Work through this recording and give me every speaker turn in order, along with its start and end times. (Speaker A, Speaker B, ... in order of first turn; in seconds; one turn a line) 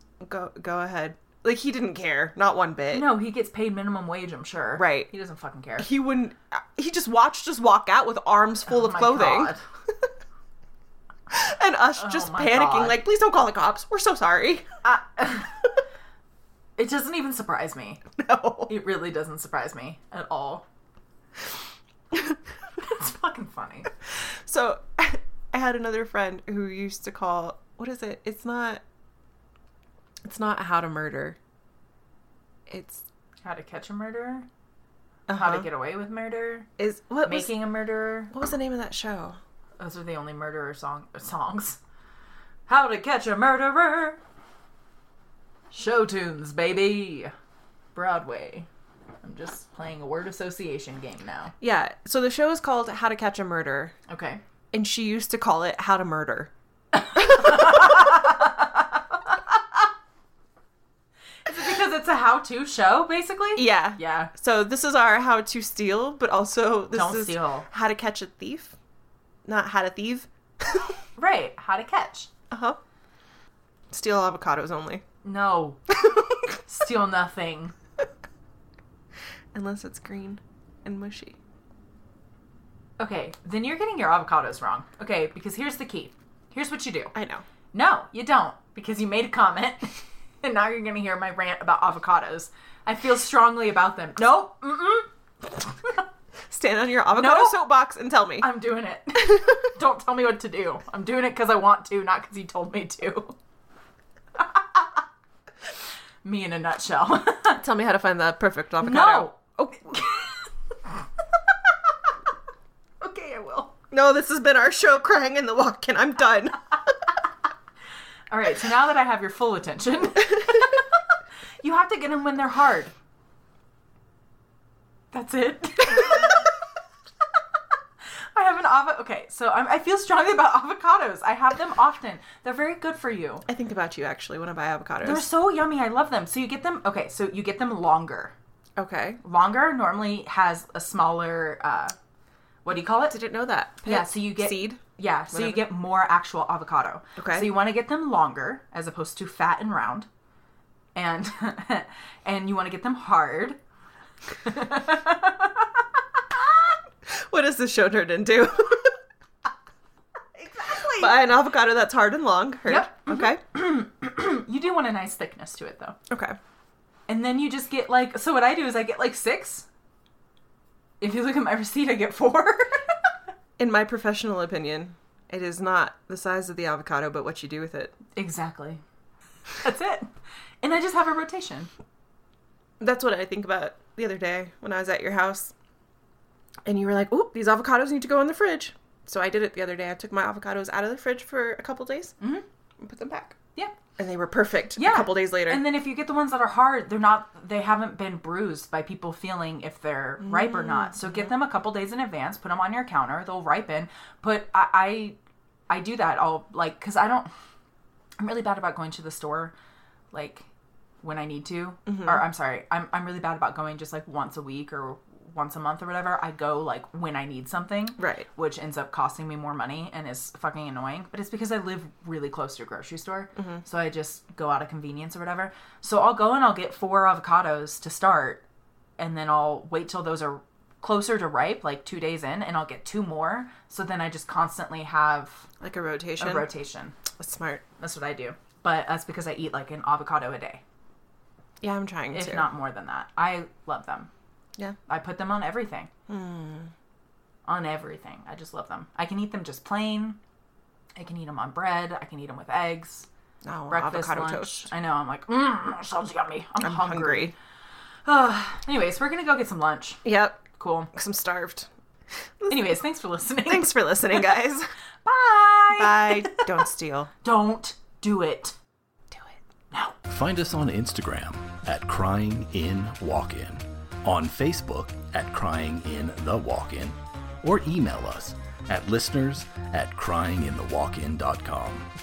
Speaker A: 0.2-3.1
Speaker B: 2.9-5.9
Speaker A: 4.8-5.1
Speaker A: 5.8-9.6
Speaker B: 8.7-9.6
Speaker A: 11.3-14.7
Speaker B: 12.0-13.0
Speaker B: 14.8-15.7
Speaker B: 16.8-18.1
Speaker A: 18.2-18.7
Speaker B: 18.7-20.6
Speaker B: 22.8-23.9
Speaker A: 24.5-28.8
Speaker A: 30.2-31.4
Speaker A: 32.7-33.0
Speaker B: 33.4-34.5
Speaker A: 35.3-35.7
Speaker B: 35.3-36.7
Speaker A: 36.8-37.5
Speaker B: 37.2-38.3
Speaker A: 38.3-39.4
Speaker B: 39.8-41.8
Speaker B: 42.7-44.2
Speaker B: 45.7-47.3
Speaker B: 48.0-48.7
Speaker B: 49.2-51.5
Speaker A: 51.6-54.0
Speaker B: 54.1-54.4
Speaker A: 54.7-56.5
Speaker B: 56.9-58.9
Speaker A: 57.2-57.8
Speaker B: 61.5-64.3
Speaker A: 63.6-68.8
Speaker B: 66.9-67.7
Speaker A: 69.5-70.9
Speaker B: 71.2-72.3
Speaker A: 72.5-72.8
Speaker A: 73.9-75.0
Speaker B: 75.2-77.7
Speaker A: 79.5-81.4
Speaker B: 83.0-87.1
Speaker A: 87.1-87.5
Speaker B: 87.7-95.1
Speaker A: 96.5-98.5
Speaker B: 97.1-97.6
Speaker B: 98.4-103.3
Speaker B: 104.4-104.8
Speaker B: 106.2-107.6
Speaker A: 107.6-109.8
Speaker B: 108.8-110.5
Speaker B: 113.0-113.7
Speaker A: 113.9-116.6
Speaker B: 118.3-120.9
Speaker B: 121.6-122.9
Speaker B: 125.1-126.5
Speaker B: 128.3-133.4
Speaker A: 133.5-135.3
Speaker B: 135.0-138.3
Speaker A: 138.8-139.2
Speaker B: 139.2-141.9
Speaker B: 142.7-143.2
Speaker A: 143.1-145.7
Speaker B: 143.8-150.1
Speaker A: 147.2-147.5
Speaker B: 150.9-153.6
Speaker B: 154.4-155.7
Speaker A: 157.1-159.0
Speaker B: 160.3-161.2
Speaker A: 161.0-163.4
Speaker B: 162.7-166.0
Speaker A: 166.1-166.4
Speaker B: 167.1-169.7
Speaker B: 171.0-172.9
Speaker A: 173.6-177.9
Speaker B: 178.2-178.8
Speaker B: 179.6-180.1
Speaker B: 180.6-181.7
Speaker A: 182.8-185.5
Speaker A: 186.7-192.2
Speaker B: 192.2-192.4
Speaker A: 192.8-193.4
Speaker A: 194.0-195.6
Speaker B: 194.8-205.2
Speaker A: 200.2-201.1
Speaker B: 205.7-207.3
Speaker B: 208.2-209.5
Speaker B: 210.1-210.5
Speaker B: 211.0-228.4
Speaker A: 211.9-212.2
Speaker A: 218.0-218.3
Speaker A: 223.4-223.6
Speaker B: 229.0-235.5
Speaker A: 235.6-236.5
Speaker B: 236.2-237.0
Speaker A: 237.2-237.6
Speaker B: 237.8-240.6
Speaker A: 241.6-242.5
Speaker B: 242.1-244.1
Speaker B: 244.9-245.9
Speaker A: 246.1-246.7
Speaker B: 247.5-250.2
Speaker B: 251.0-253.1
Speaker A: 253.4-254.6
Speaker B: 253.7-257.3
Speaker A: 256.6-257.3
Speaker B: 258.1-260.0
Speaker A: 260.0-261.7
Speaker B: 260.6-260.9
Speaker A: 262.4-262.8
Speaker B: 262.5-264.2
Speaker A: 263.5-264.7
Speaker B: 265.1-266.5
Speaker A: 265.7-267.1
Speaker B: 267.2-268.6
Speaker A: 269.1-269.4
Speaker B: 269.7-270.0
Speaker C: 270.1-281.9